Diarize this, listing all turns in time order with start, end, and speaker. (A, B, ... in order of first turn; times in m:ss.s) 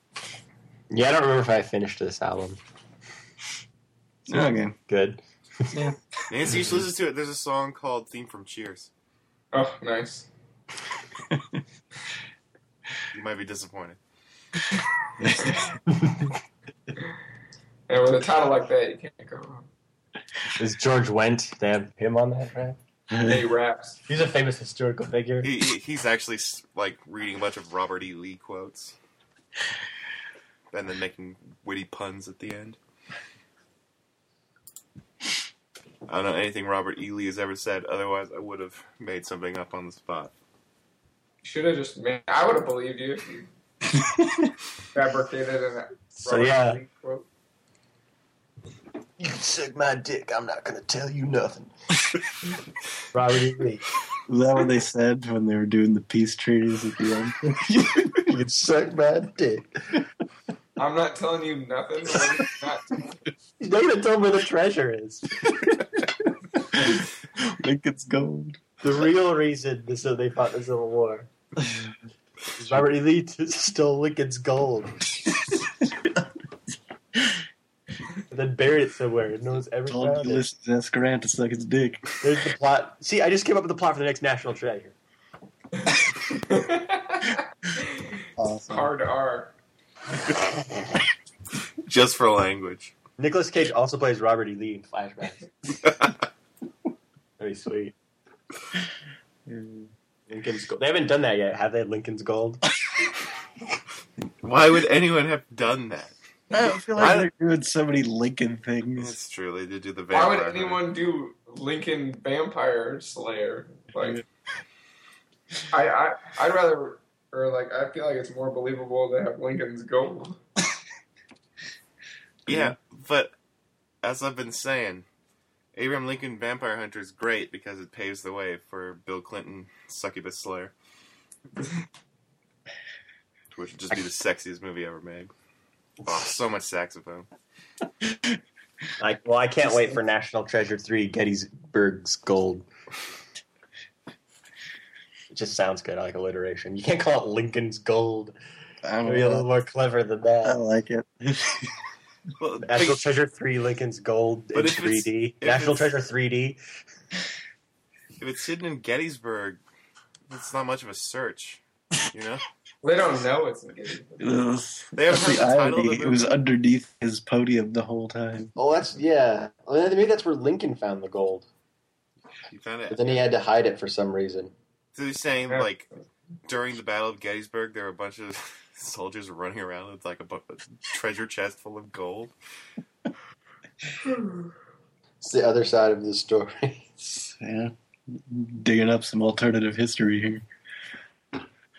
0:00.9-0:02.6 A
0:04.3-0:04.8 B
0:04.9-0:05.7 A
0:05.7-0:06.1 B
0:06.3-0:08.9 C
0:09.5-0:10.3 D
0:11.3-0:11.6 B
0:13.1-0:14.0 C
0:15.2-0:15.6 B
0:15.8-0:16.3 A
0:17.9-0:19.6 D
0:20.6-0:22.8 A
0:23.1-0:23.4 B
0:23.3-0:24.0 D
0:24.1-0:25.5 A
0:25.4-0:29.0 C
0:30.7-0:32.8 C
0:36.1-0:40.3 C
0:41.4-0:43.5 D
0:43.9-0:44.5 B
0:44.9-0:47.2 D
0:46.2-0:46.8 A
0:49.2-0:51.7 A
0:53.1-0:53.8 A
0:54.3-0:58.3 B
0:58.2-1:00.0 A
1:00.8-1:03.0 D
1:03.6-1:05.7 A
1:06.3-1:08.6 B
1:08.8-1:11.3 A
1:12.5-1:15.0 A
1:15.3-1:16.3 B
1:17.1-1:17.4 B
1:18.3-1:20.4 A
1:19.9-1:22.0 B
1:22.2-1:24.9 A
1:25.8-1:29.5 D
1:28.4-1:28.9 B
1:31.8-1:32.9 C
1:33.2-1:35.4 A
1:37.4-1:37.9 A
1:39.5-1:39.9 B
1:40.3-1:42.6 A
1:44.4-1:46.2 C
1:46.5-1:49.2 B
1:46.9-1:47.3 C
1:49.0-1:50.8 C
1:50.1-1:54.2 D
1:55.7-2:00.4 D
2:02.5-2:03.3 C
2:02.5-2:02.8 B
2:04.0-2:05.0 C
2:05.7-2:10.7 C
2:13.5-2:15.3 C
2:16.0-2:17.3 C
2:19.0-2:22.6 A
2:25.3-2:28.3 A
2:28.8-2:29.5 B
2:29.0-2:30.6 A
2:30.4-2:31.9 B
2:32.4-2:33.1 C
2:32.6-2:36.6 A
2:34.5-2:35.9 C
2:38.2-2:39.6 C
2:40.3-2:42.4 C
2:42.8-2:44.3 D
2:44.2-2:48.5 B
2:44.9-2:46.3 C
2:48.6-2:51.5 A
2:52.5-2:53.2 C
2:52.9-2:54.5 A
2:54.9-2:55.9 C
2:56.4-3:02.3 C
3:05.2-3:07.0 A
3:07.2-3:10.4 B